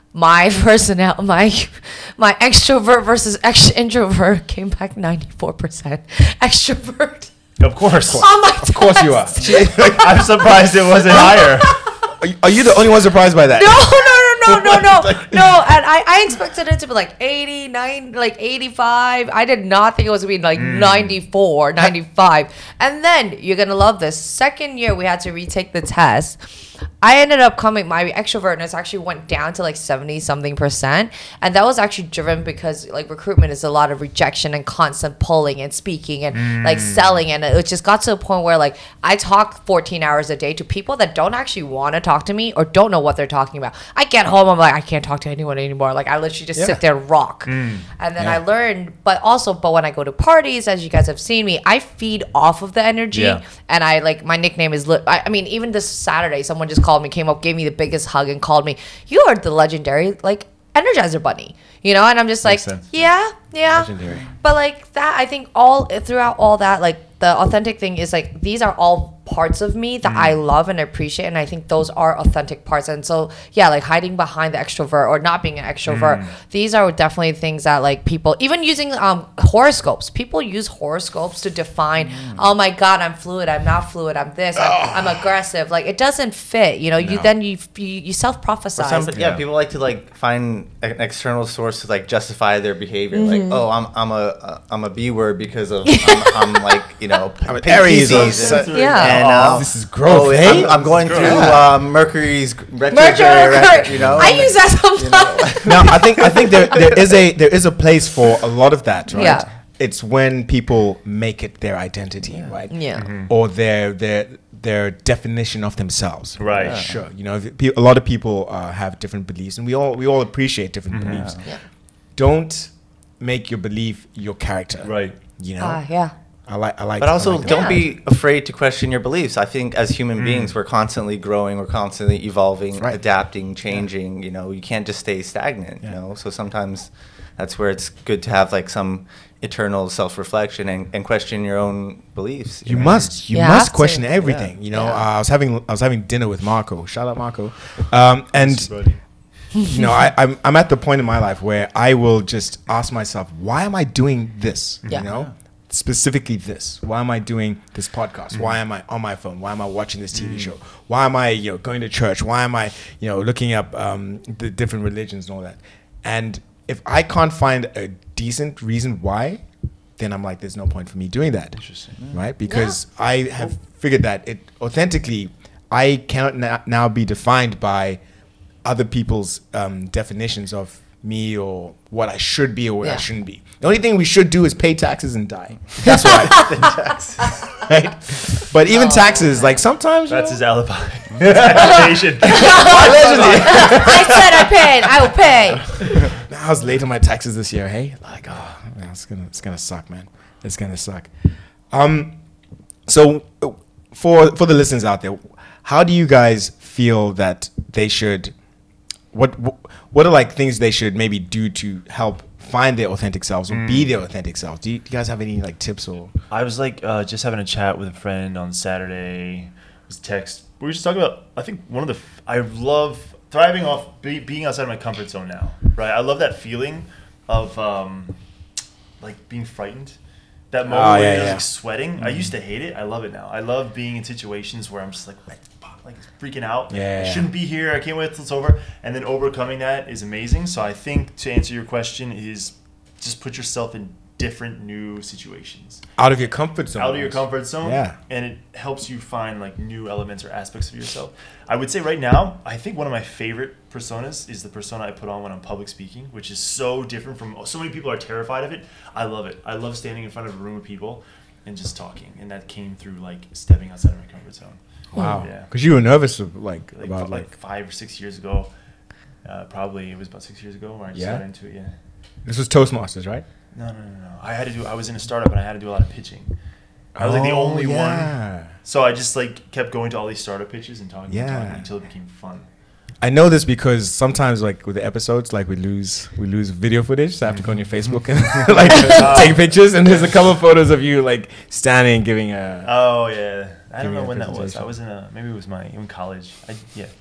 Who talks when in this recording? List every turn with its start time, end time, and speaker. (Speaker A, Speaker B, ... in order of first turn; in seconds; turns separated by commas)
Speaker A: 0.1-7.3, Speaker B: 7.6-8.3, Speaker A: 8.1-9.4, Speaker C: 8.1-15.7, Speaker B: 9.4-11.8, Speaker A: 13.5-26.4, Speaker B: 20.6-21.2, Speaker A: 27.0-89.1, Speaker B: 36.3-37.2, Speaker B: 47.5-47.9, Speaker B: 53.1-53.4, Speaker B: 62.5-62.9, Speaker C: 63.6-64.3, Speaker B: 70.0-70.4, Speaker B: 75.9-76.3, Speaker D: 82.1-82.4, Speaker C: 84.6-85.2, Speaker C: 87.0-87.3, Speaker D: 88.8-106.8, Speaker B: 89.1-89.4, Speaker A: 93.1-93.6, Speaker A: 95.9-96.7, Speaker C: 97.5-101.7, Speaker B: 97.8-99.7, Speaker A: 98.7-99.2, Speaker B: 100.7-101.6, Speaker A: 102.9-106.7, Speaker C: 104.0-104.3, Speaker C: 105.6-121.5, Speaker A: 109.1-109.5, Speaker A: 112.7-113.1, Speaker B: 113.0-113.3, Speaker B: 116.4-116.8, Speaker D: 116.5-117.0, Speaker B: 120.9-121.3, Speaker D: 121.0-121.5, Speaker C: 122.2-125.8, Speaker B: 124.8-125.2, Speaker A: 125.6-126.1, Speaker C: 126.5-127.8, Speaker D: 127.0-143.1, Speaker A: 127.4-127.8, Speaker B: 130.2-130.6, Speaker C: 142.7-148.7, Speaker B: 142.8-143.1, Speaker A: 143.3-144.1, Speaker D: 144.2-144.5, Speaker A: 144.7-145.0, Speaker B: 148.3-149.0, Speaker C: 149.6-169.4, Speaker B: 154.8-155.2, Speaker B: 160.2-160.5, Speaker C: 170.0-178.0, Speaker B: 171.6-172.1, Speaker A: 172.5-172.8, Speaker C: 178.6-186.8, Speaker A: 185.9-186.5, Speaker D: 186.0-187.3, Speaker C: 187.5-190.4, Speaker A: 188.7-189.6, Speaker B: 190.1-194.2, Speaker C: 191.2-194.5, Speaker A: 192.3-195.7, Speaker C: 195.8-201.1, Speaker C: 201.7-202.2, Speaker C: 202.9-208.3, Speaker C: 209.1-216.1, Speaker B: 213.5-213.9, Speaker B: 216.3-228.2, Speaker B: 229.0-230.0, Speaker B: 230.5-245.8, Speaker C: 230.7-231.4, Speaker C: 236.7-237.3, Speaker C: 246.0-248.0, Speaker B: 246.8-265.5, Speaker C: 264.9-267.3, Speaker A: 264.9-265.2, Speaker B: 266.8-268.5, Speaker B: 269.2-271.7, Speaker C: 270.9-271.2, Speaker C: 272.3-273.2, Speaker B: 273.5-276.4, Speaker C: 277.0-278.5, Speaker B: 277.0-282.5, Speaker C: 281.1-281.6, Speaker C: 283.0-292.7, Speaker B: 288.7-289.8, Speaker B: 292.6-296.9, Speaker C: 293.8-294.7